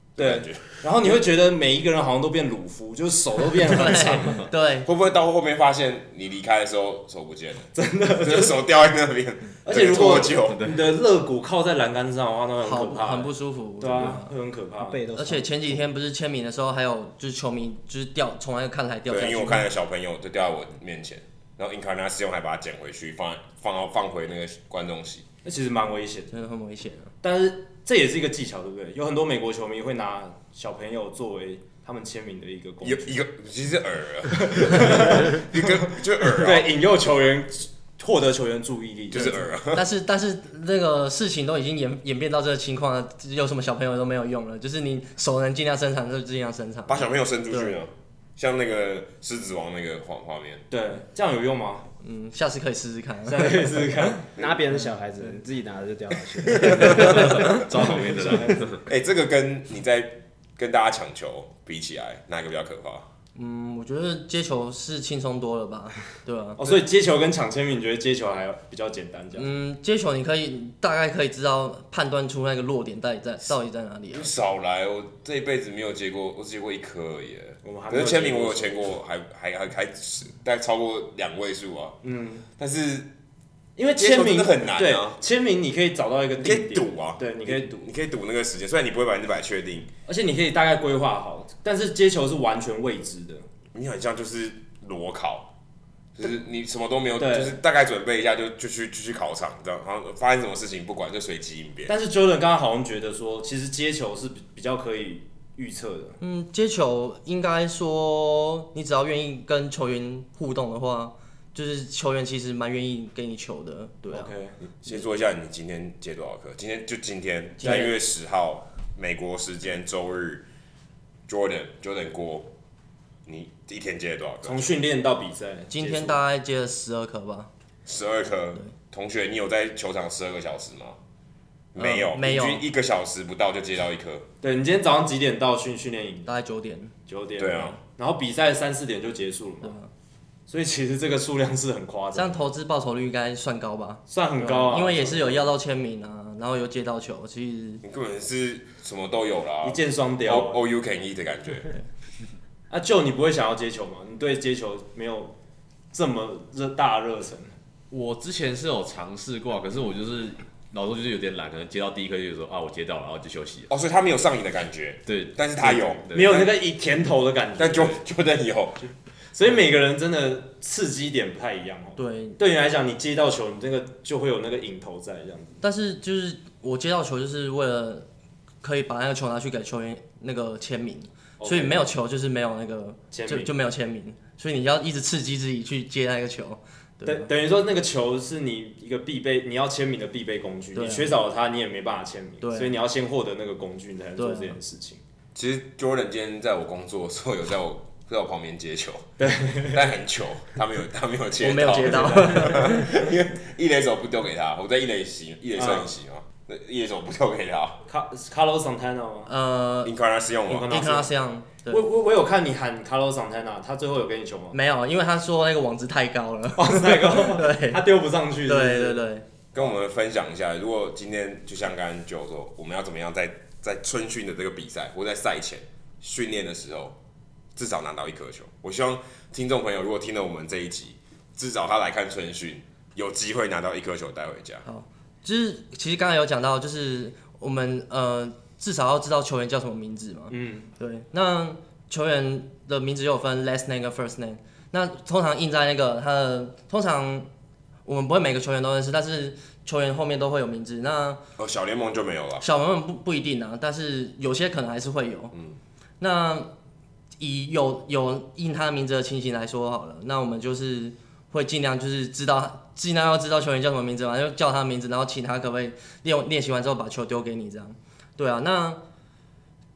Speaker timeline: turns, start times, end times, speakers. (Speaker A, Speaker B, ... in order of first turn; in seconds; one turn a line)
Speaker A: 0.1-0.6
Speaker B: 0.2-4.5
Speaker C: 3.6-4.9
Speaker A: 4.8-10.6
Speaker B: 7.7-8.6
Speaker B: 9.6-15.0
Speaker D: 9.7-10.9
Speaker C: 12.6-14.3
Speaker E: 14.8-15.8
Speaker C: 15.1-19.7
Speaker A: 19.1-25.2
Speaker B: 25.4-26.3
Speaker C: 26.3-27.1
Speaker B: 27.2-33.2
Speaker A: 32.8-36.7
Speaker B: 34.4-35.6
Speaker B: 36.2-39.5
Speaker A: 39.1-39.9
Speaker C: 39.7-47.8
Speaker A: 46.9-50.6
Speaker B: 50.7-51.9
Speaker C: 52.0-53.9
Speaker B: 53.3-54.3
Speaker E: 54.4-58.5
Speaker D: 56.5-58.8
Speaker B: 57.8-58.6
Speaker A: 58.8-63.1
Speaker C: 63.3-66.6
Speaker B: 66.6-69.5
Speaker C: 69.3-74.3
Speaker A: 74.1-82.0
Speaker B: 77.6-78.8
Speaker B: 82.0-82.4
Speaker A: 82.6-83.1
Speaker B: 83.8-87.8
Speaker A: 84.0-85.2
Speaker A: 86.4-89.9
Speaker B: 90.0-93.5
Speaker A: 93.7-95.5
Speaker A: 96.2-101.9
Speaker B: 97.2-97.6
Speaker B: 101.9-106.2
Speaker C: 106.2-114.3
Speaker B: 114.1-114.6
Speaker A: 114.8-120.4
Speaker C: 117.6-117.9
Speaker B: 117.6-117.9
Speaker A: 121.3-122.5
Speaker A: 123.2-124.8
Speaker B: 124.4-126.2
Speaker C: 125.7-127.5
Speaker A: 127.8-131.0
Speaker A: 131.7-134.3
Speaker C: 131.8-132.6
Speaker B: 134.4-136.3
Speaker C: 136.2-136.9
Speaker B: 137.1-139.7
Speaker A: 137.4-137.8
Speaker C: 139.6-139.9
Speaker B: 140.5-142.4
Speaker C: 142.1-147.8
Speaker B: 144.1-145.5
Speaker A: 147.8-151.7
Speaker B: 149.6-150.6
Speaker B: 152.7-155.3
Speaker B: 155.9-157.5
Speaker D: 157.9-163.7
Speaker A: 163.7-166.6
Speaker D: 165.1-166.5
Speaker B: 166.1-168.0
Speaker A: 167.6-168.9
Speaker B: 169.3-175.6
Speaker C: 172.0-172.4
Speaker C: 175.6-178.1
Speaker C: 178.6-187.3
Speaker B: 181.4-181.8
Speaker B: 183.1-183.5
Speaker B: 187.1-195.0
Speaker C: 190.7-191.2
Speaker C: 192.4-192.7
Speaker C: 194.2-194.6
Speaker A: 195.3-207.8
Speaker B: 199.2-199.8
Speaker C: 201.4-202.9
Speaker B: 202.2-202.7
Speaker B: 205.6-205.9
Speaker B: 207.9-209.3
Speaker C: 209.3-209.9
Speaker A: 209.8-210.8
Speaker B: 210.5-211.1
Speaker C: 210.5-211.8
Speaker B: 211.7-214.6
Speaker C: 214.5-217.9
Speaker B: 216.6-219.0
Speaker C: 218.4-219.2
Speaker A: 219.5-226.9
Speaker A: 227.6-234.6
Speaker C: 234.6-247.3
Speaker B: 240.3-240.7
Speaker C: 247.8-251.2
Speaker A: 251.4-252.4
Speaker C: 252.4-255.3
Speaker C: 256.0-256.5
Speaker C: 257.2-268.8